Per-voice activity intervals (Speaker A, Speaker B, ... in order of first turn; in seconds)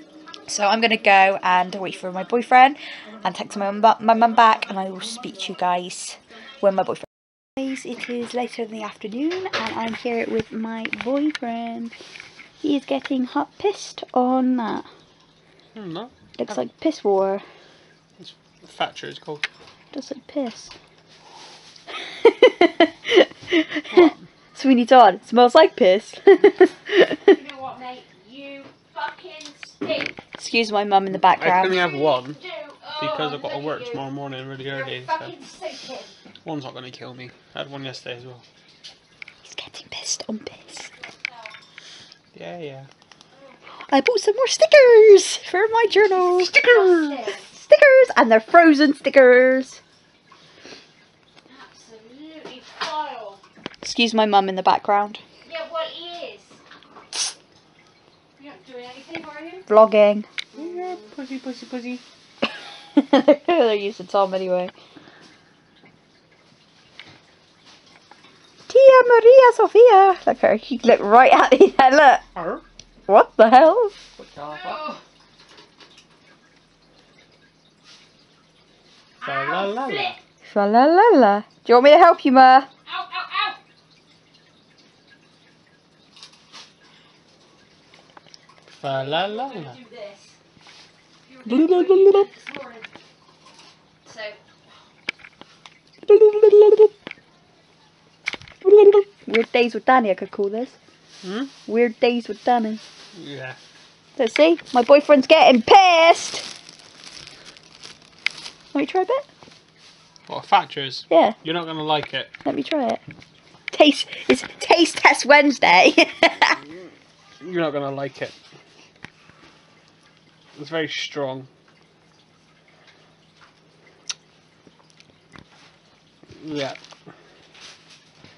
Speaker A: 0.5-11.9, 12.6-14.9, 16.4-17.4, 19.9-20.7, 22.0-27.3, 30.4-31.8, 39.4-40.9, 43.9-46.7, 47.3-49.8, 53.8-55.2, 59.7-60.3, 62.9-64.7, 68.7-72.2, 73.1-74.0, 80.4-82.7, 91.4-92.3, 96.0-96.9, 98.6-100.8, 101.7-102.8, 104.2-106.5, 108.7-109.3, 111.1-111.3, 112.4-113.0, 113.7-116.6
Speaker B: 15.7-16.6, 18.2-19.5, 23.9-24.2, 31.1-32.4, 33.0-35.3, 36.4-38.4, 42.3-42.9, 46.7-47.1, 60.5-62.0, 72.3-72.6, 74.2-75.0, 79.2-80.2, 88.7-89.8, 101.2-101.5, 103.1-103.6, 110.3-112.3, 117.4-118.3, 120.5-121.5, 126.4-126.8
Speaker C: 27.3-30.1, 31.7-34.0, 34.7-36.1, 46.4-47.4, 51.5-53.4, 55.5-56.6, 58.4-59.6, 60.6-60.9, 79.2-80.2, 82.9-83.6, 88.9-90.4, 91.3-92.9, 94.0-94.4